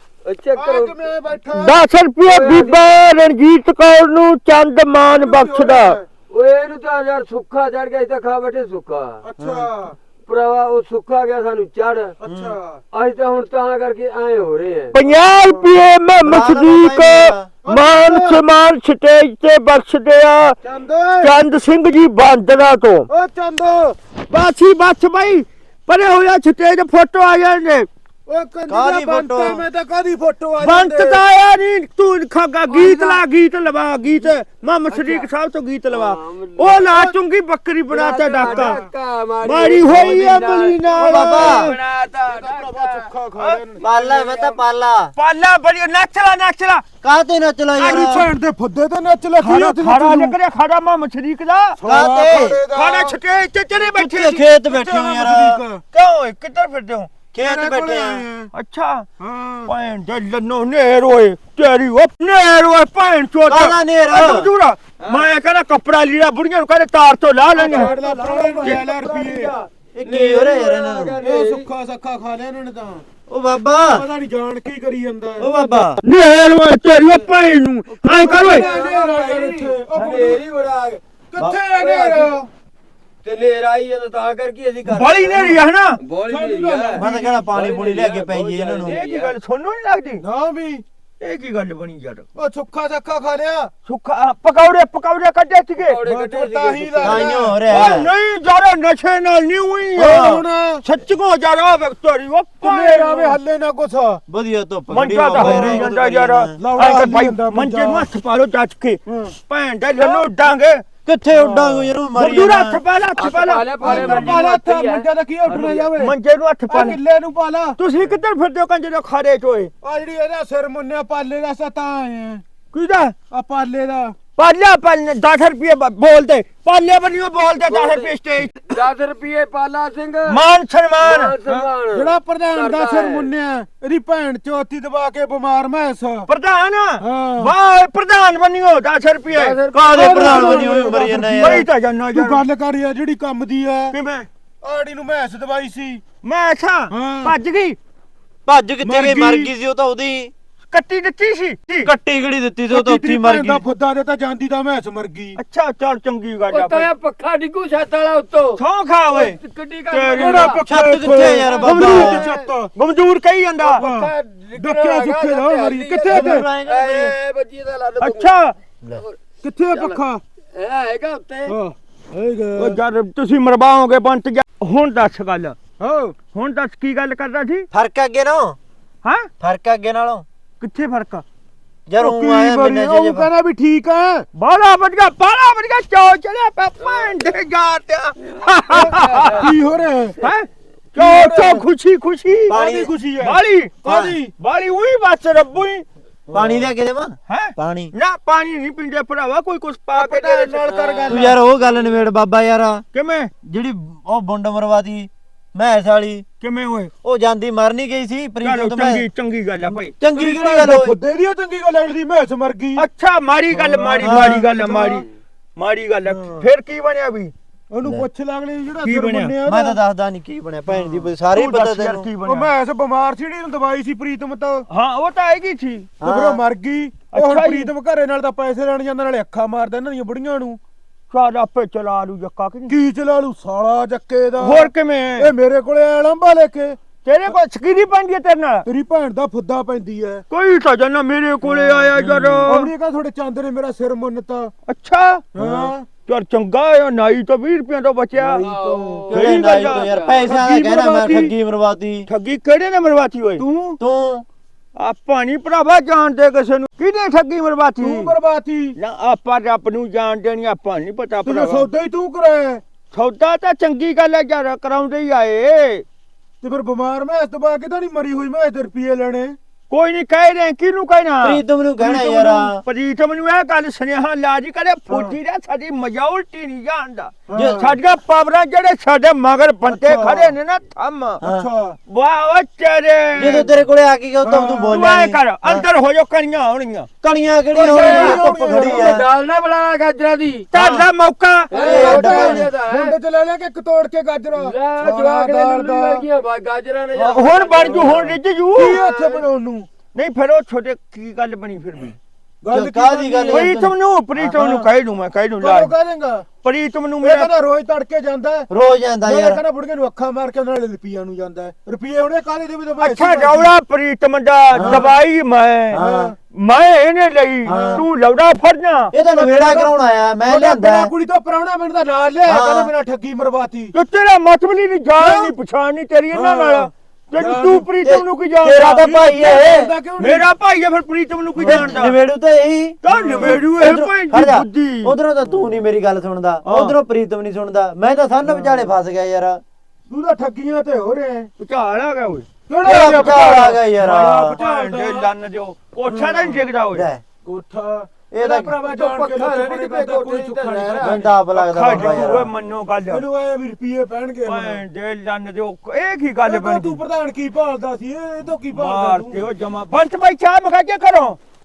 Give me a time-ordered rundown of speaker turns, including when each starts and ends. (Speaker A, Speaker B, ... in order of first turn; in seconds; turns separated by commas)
Speaker A: 0.2-1.0, Speaker B: 0.6-1.8, Speaker C: 1.5-6.0, Speaker A: 2.2-2.9, Speaker B: 5.0-6.0, Speaker A: 6.3-9.2, Speaker B: 9.2-9.9, Speaker D: 9.4-9.7, Speaker A: 10.2-12.2, Speaker B: 12.2-12.8, Speaker D: 12.2-12.5, Speaker A: 12.9-14.9, Speaker C: 14.9-20.6, Speaker B: 15.4-15.7, Speaker D: 16.2-17.5, Speaker B: 17.6-18.4, Speaker B: 20.6-21.4, Speaker C: 21.2-23.1, Speaker B: 23.1-24.0, Speaker C: 24.3-27.9, Speaker B: 28.3-31.2, Speaker D: 28.7-29.6, Speaker C: 30.6-38.8, Speaker A: 32.7-33.2, Speaker A: 34.9-35.3, Speaker A: 35.9-37.1, Speaker A: 37.9-43.1, Speaker B: 38.3-38.9, Speaker C: 39.4-41.7, Speaker B: 41.0-41.6, Speaker D: 41.0-41.8, Speaker B: 42.3-43.9, Speaker C: 43.4-43.6, Speaker D: 43.8-45.1, Speaker C: 45.1-46.8, Speaker D: 47.0-48.3, Speaker C: 47.8-48.2, Speaker B: 47.8-50.3, Speaker C: 49.4-51.8, Speaker B: 51.8-53.2, Speaker D: 51.8-52.6, Speaker C: 52.7-54.4, Speaker D: 53.9-55.6, Speaker B: 54.3-55.8, Speaker C: 55.9-57.1, Speaker D: 57.3-58.3, Speaker B: 57.4-58.5, Speaker C: 58.5-59.1, Speaker B: 59.2-59.7, Speaker C: 59.6-67.9, Speaker D: 63.5-64.5, Speaker B: 67.5-69.5, Speaker A: 67.6-71.7, Speaker D: 69.9-71.1, Speaker B: 71.2-73.0, Speaker D: 73.3-74.0, Speaker B: 73.8-75.5, Speaker D: 75.4-76.0, Speaker C: 76.0-78.7, Speaker A: 77.0-77.3, Speaker A: 77.9-81.0, Speaker B: 78.0-80.4, Speaker C: 80.0-80.3, Speaker B: 81.3-82.5, Speaker A: 81.7-82.4, Speaker A: 83.2-89.3, Speaker C: 84.9-86.0, Speaker B: 86.3-87.4, Speaker D: 86.9-89.0, Speaker C: 88.8-90.2, Speaker B: 90.2-90.8, Speaker C: 91.2-92.3, Speaker B: 92.3-93.7, Speaker C: 93.8-96.0, Speaker A: 95.8-97.3, Speaker B: 96.0-97.8, Speaker D: 97.0-98.1, Speaker C: 97.7-103.4, Speaker B: 100.0-100.8, Speaker D: 100.0-100.4, Speaker B: 102.6-104.2, Speaker D: 104.3-106.5, Speaker C: 104.9-110.8, Speaker B: 105.3-105.8, Speaker B: 106.6-108.1, Speaker B: 109.1-109.3, Speaker B: 109.9-110.2, Speaker D: 111.0-112.8, Speaker B: 111.3-111.9, Speaker C: 112.1-114.3, Speaker A: 113.2-115.9, Speaker B: 113.8-116.1, Speaker C: 116.0-117.0, Speaker B: 116.7-117.8, Speaker C: 117.8-119.7, Speaker B: 119.8-122.4, Speaker C: 122.7-123.1, Speaker B: 123.3-124.2, Speaker C: 124.4-128.8, Speaker A: 127.7-128.1, Speaker A: 128.7-130.4, Speaker C: 130.3-131.3, Speaker A: 131.0-133.3, Speaker B: 131.5-136.3, Speaker C: 136.3-139.6, Speaker B: 137.0-137.5, Speaker A: 139.3-141.0, Speaker D: 139.7-141.7, Speaker B: 139.9-144.0, Speaker C: 141.4-142.4, Speaker C: 143.9-144.3, Speaker B: 144.6-146.0, Speaker C: 146.2-147.8, Speaker B: 146.9-147.3, Speaker D: 148.4-150.3, Speaker B: 148.8-149.5, Speaker C: 150.7-151.9, Speaker D: 151.8-153.6, Speaker B: 152.7-155.4, Speaker C: 155.3-156.9, Speaker A: 156.5-160.6, Speaker C: 158.5-159.4, Speaker C: 159.9-160.5, Speaker B: 160.1-162.7, Speaker D: 160.7-162.2, Speaker A: 161.4-162.5, Speaker C: 161.6-162.2, Speaker C: 162.7-163.8, Speaker A: 163.6-168.3, Speaker B: 163.8-166.5, Speaker D: 166.1-167.1, Speaker C: 168.0-168.6, Speaker A: 168.9-169.2, Speaker B: 169.4-170.2, Speaker A: 169.7-170.0, Speaker A: 170.5-171.6, Speaker B: 171.5-172.8, Speaker C: 172.6-175.6, Speaker B: 175.8-176.2, Speaker C: 176.3-177.7, Speaker D: 177.7-178.6, Speaker C: 179.0-179.3, Speaker D: 179.4-180.2, Speaker C: 180.6-181.2, Speaker D: 181.9-183.3, Speaker B: 182.0-184.3, Speaker C: 184.3-189.5, Speaker A: 186.8-187.1, Speaker A: 188.5-189.5, Speaker B: 189.4-190.2, Speaker C: 190.2-192.6, Speaker B: 190.9-191.6, Speaker D: 192.5-192.9, Speaker B: 192.5-194.3, Speaker C: 193.2-193.8, Speaker D: 193.8-194.2, Speaker C: 194.4-195.8, Speaker B: 196.3-196.6, Speaker D: 196.3-197.9, Speaker C: 197.3-200.7, Speaker B: 199.9-201.4, Speaker A: 200.7-201.3, Speaker D: 201.1-202.8, Speaker C: 202.9-203.3, Speaker D: 203.4-206.3, Speaker C: 206.4-206.9, Speaker D: 207.0-209.0, Speaker C: 208.4-209.9, Speaker D: 210.0-211.0, Speaker B: 210.1-212.8, Speaker C: 212.8-215.1, Speaker B: 213.5-215.1, Speaker D: 214.0-214.4, Speaker C: 215.6-217.3, Speaker B: 216.0-216.4, Speaker B: 217.7-219.8, Speaker C: 218.8-219.3, Speaker D: 219.4-222.1, Speaker B: 220.7-221.1, Speaker C: 221.3-222.5, Speaker B: 222.2-224.7, Speaker C: 224.7-225.9, Speaker D: 226.0-226.4, Speaker B: 226.0-230.6, Speaker C: 227.1-227.7, Speaker C: 231.1-232.8, Speaker B: 232.7-236.8, Speaker C: 234.4-235.3, Speaker C: 237.0-238.7, Speaker B: 238.7-240.2, Speaker C: 240.3-242.7, Speaker B: 241.4-244.5, Speaker D: 242.1-242.5, Speaker C: 244.7-245.2, Speaker B: 245.3-245.9, Speaker D: 245.4-245.7, Speaker C: 246.0-248.4, Speaker B: 248.2-249.1, Speaker A: 248.4-250.2, Speaker D: 249.1-252.1, Speaker C: 249.1-249.9, Speaker B: 250.2-251.3, Speaker C: 252.1-253.4, Speaker B: 253.4-253.8, Speaker D: 253.8-254.2, Speaker C: 254.8-258.1, Speaker B: 257.8-258.8, Speaker C: 258.8-261.7, Speaker B: 261.2-262.6, Speaker C: 262.9-265.8, Speaker B: 266.4-269.4, Speaker C: 269.7-281.2, Speaker D: 271.2-272.6, Speaker B: 274.9-275.1, Speaker B: 277.3-277.7, Speaker D: 277.3-277.7, Speaker B: 279.7-280.3, Speaker D: 281.2-281.5, Speaker B: 281.2-281.8, Speaker C: 281.9-283.5, Speaker D: 283.1-285.6, Speaker B: 284.2-284.8, Speaker C: 284.7-286.9, Speaker D: 287.0-289.1, Speaker B: 287.5-289.0, Speaker A: 287.5-290.5, Speaker C: 287.9-288.2, Speaker C: 290.5-291.5, Speaker D: 290.5-290.9, Speaker A: 291.5-292.9, Speaker B: 291.5-296.0, Speaker D: 291.6-292.4, Speaker A: 294.4-298.1, Speaker C: 296.9-298.8, Speaker B: 297.6-298.0, Speaker B: 298.5-299.7, Speaker A: 298.7-299.2, Speaker C: 299.9-302.0, Speaker B: 302.4-303.5, Speaker D: 302.5-303.7, Speaker C: 303.3-305.7, Speaker B: 304.2-304.7, Speaker B: 305.4-306.3, Speaker C: 306.4-307.3, Speaker B: 307.0-308.5, Speaker D: 308.5-309.4, Speaker B: 309.0-313.5, Speaker C: 312.8-318.9, Speaker D: 314.5-314.9, Speaker B: 314.6-314.9, Speaker D: 315.7-316.1, Speaker B: 315.7-316.1, Speaker D: 317.4-317.8, Speaker B: 317.5-317.8, Speaker D: 318.9-320.9, Speaker B: 319.1-319.7, Speaker B: 320.3-323.7, Speaker D: 322.3-322.7, Speaker C: 323.7-328.9, Speaker B: 325.0-325.3, Speaker B: 326.1-327.7, Speaker D: 327.8-329.7, Speaker B: 328.6-330.2, Speaker C: 330.0-332.0, Speaker B: 331.4-331.9, Speaker D: 331.4-339.4, Speaker C: 332.8-334.9, Speaker B: 332.9-333.5, Speaker C: 336.4-336.8, Speaker B: 338.2-338.6, Speaker B: 339.9-341.3, Speaker C: 341.4-346.9, Speaker B: 342.5-345.1, Speaker D: 342.6-344.4, Speaker B: 345.9-346.4, Speaker D: 346.7-347.0, Speaker B: 347.2-351.1, Speaker D: 348.1-348.6, Speaker A: 348.6-351.0, Speaker D: 350.8-352.3, Speaker C: 351.3-353.0, Speaker B: 351.7-352.3, Speaker B: 352.9-354.6, Speaker C: 354.2-356.8, Speaker B: 356.2-359.2, Speaker C: 358.5-361.2